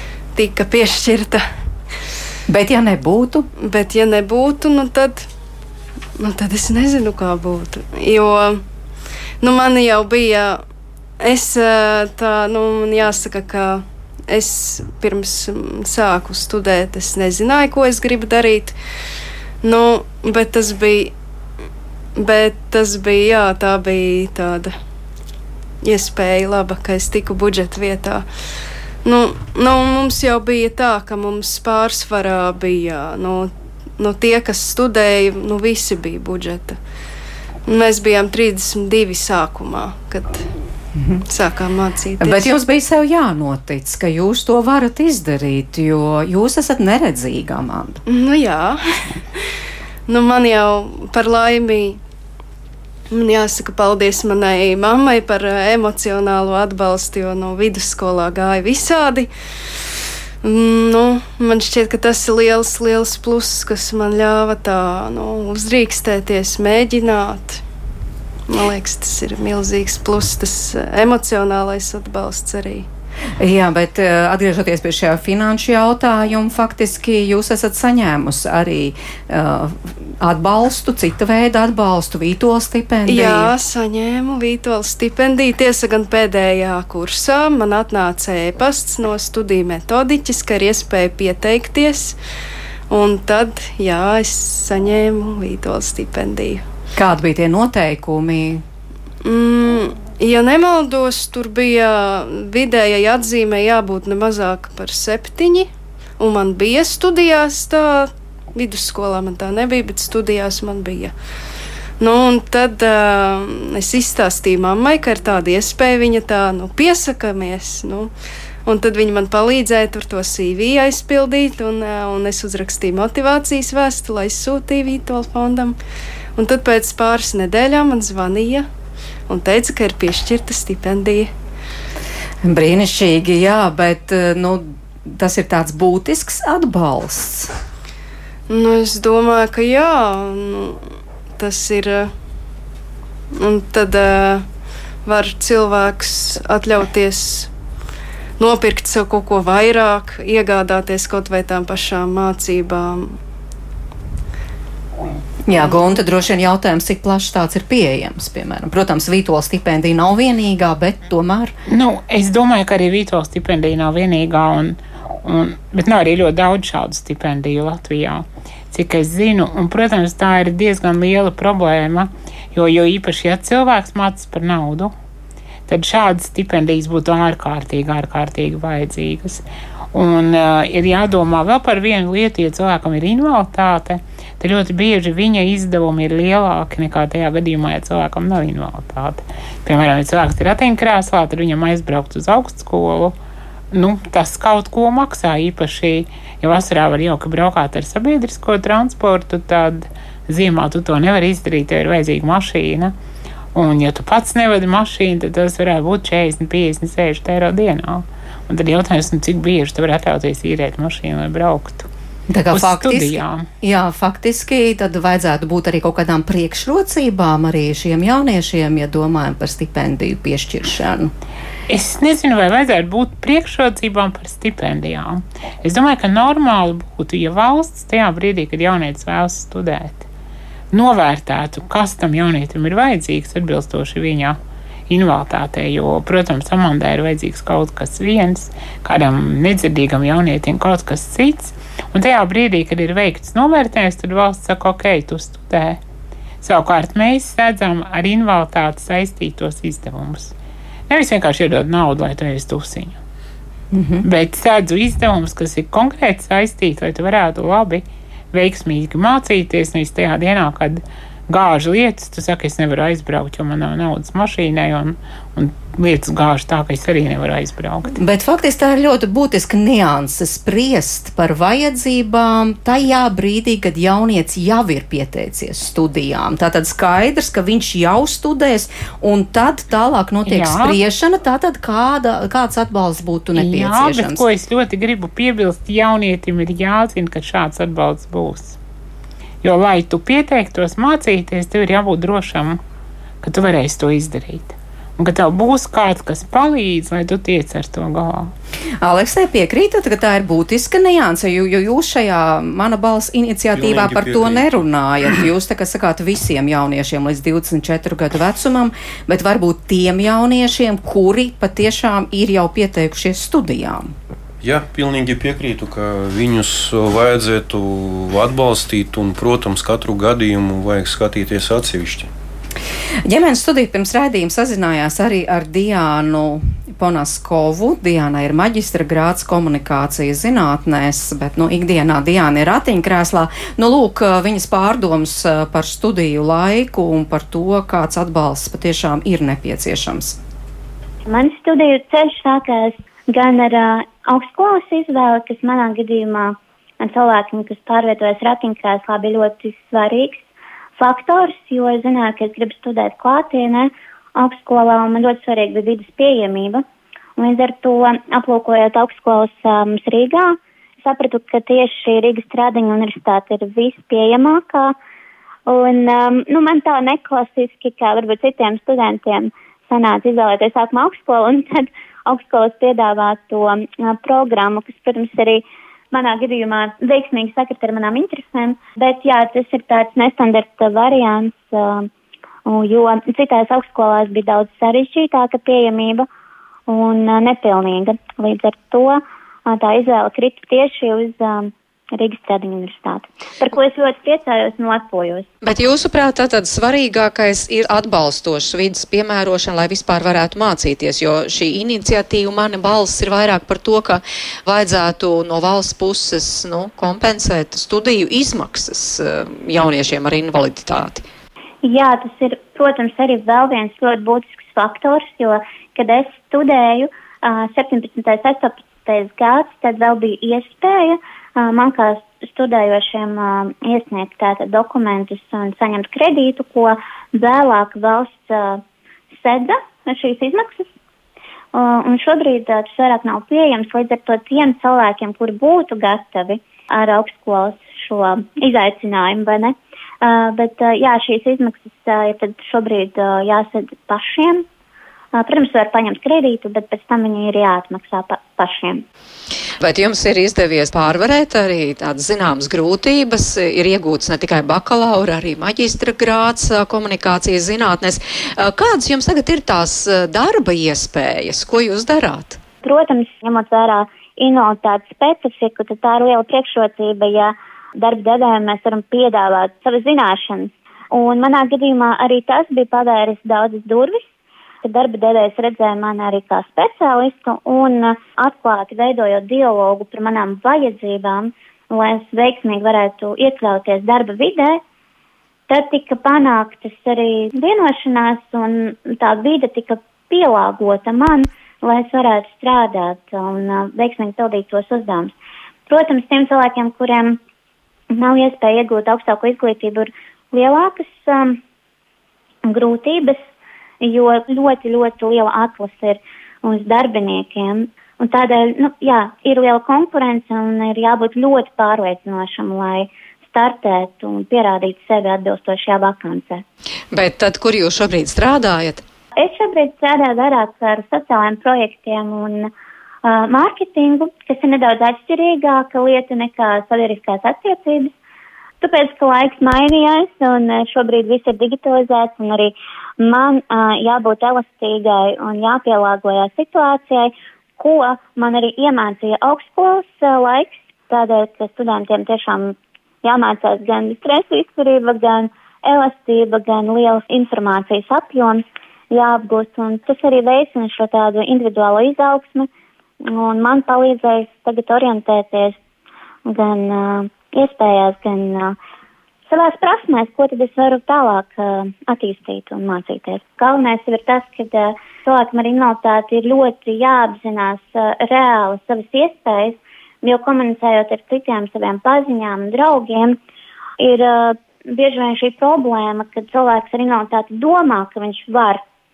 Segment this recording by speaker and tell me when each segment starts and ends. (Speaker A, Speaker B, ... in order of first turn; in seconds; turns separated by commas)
Speaker A: 0.3-1.4, Speaker B: 2.5-3.5, Speaker A: 3.6-5.2, Speaker A: 6.2-8.6, Speaker A: 9.4-10.6, Speaker A: 11.2-18.8, Speaker A: 19.6-21.1, Speaker A: 22.1-24.7, Speaker A: 25.8-28.2, Speaker A: 29.0-36.8, Speaker A: 37.7-40.5, Speaker B: 41.0-41.2, Speaker A: 41.3-42.5, Speaker B: 42.2-48.0, Speaker A: 48.1-49.2, Speaker A: 50.1-52.0, Speaker A: 53.1-59.3, Speaker A: 60.4-67.6, Speaker A: 68.5-72.9, Speaker B: 73.4-83.5, Speaker A: 83.0-92.2, Speaker A: 92.9-96.6, Speaker B: 97.0-98.6, Speaker A: 99.2-105.7, Speaker A: 106.2-111.1, Speaker A: 112.0-118.1, Speaker A: 118.6-125.8, Speaker A: 126.3-128.7, Speaker A: 129.3-131.3, Speaker B: 132.4-137.5, Speaker A: 138.5-140.8, Speaker A: 141.4-142.1, Speaker A: 143.3-144.4, Speaker A: 145.0-147.5, Speaker A: 148.4-153.2, Speaker B: 155.5-161.5, Speaker C: 161.7-174.9, Speaker C: 175.7-193.2, Speaker C: 193.7-202.9, Speaker C: 203.5-211.9, Speaker B: 212.3-221.1, Speaker C: 212.5-213.5, Speaker C: 221.7-230.1, Speaker C: 230.7-245.8, Speaker C: 246.4-250.3, Speaker C: 250.9-253.0, Speaker B: 253.7-254.0, Speaker C: 254.0-267.9, Speaker B: 268.0-284.2, Speaker C: 280.2-280.8, Speaker C: 283.3-288.6, Speaker C: 289.4-292.6, Speaker C: 293.2-298.3, Speaker B: 298.8-313.9, Speaker D: 303.5-304.6, Speaker D: 314.4-322.1, Speaker B: 323.1-340.2, Speaker E: 341.1-350.2, Speaker E: 350.8-356.6, Speaker E: 357.2-364.7, Speaker E: 365.5-381.9, Speaker E: 382.4-386.1, Speaker E: 386.7-395.3, Speaker B: 395.4-411.0, Speaker E: 411.6-430.7, Speaker E: 431.5-444.4, Speaker E: 445.1-448.8, Speaker B: 449.6-462.4, Speaker E: 462.6-474.0, Speaker E: 474.6-484.6, Speaker E: 485.5-495.1, Speaker E: 495.7-497.2, Speaker E: 497.9-501.4, Speaker E: 502.4-503.2, Speaker E: 503.8-516.4, Speaker B: 516.9-518.8, Speaker E: 519.1-522.5, Speaker E: 523.0-527.9, Speaker E: 528.6-552.5, Speaker E: 553.0-555.6, Speaker E: 556.2-558.5, Speaker E: 559.3-573.2, Speaker E: 573.8-578.6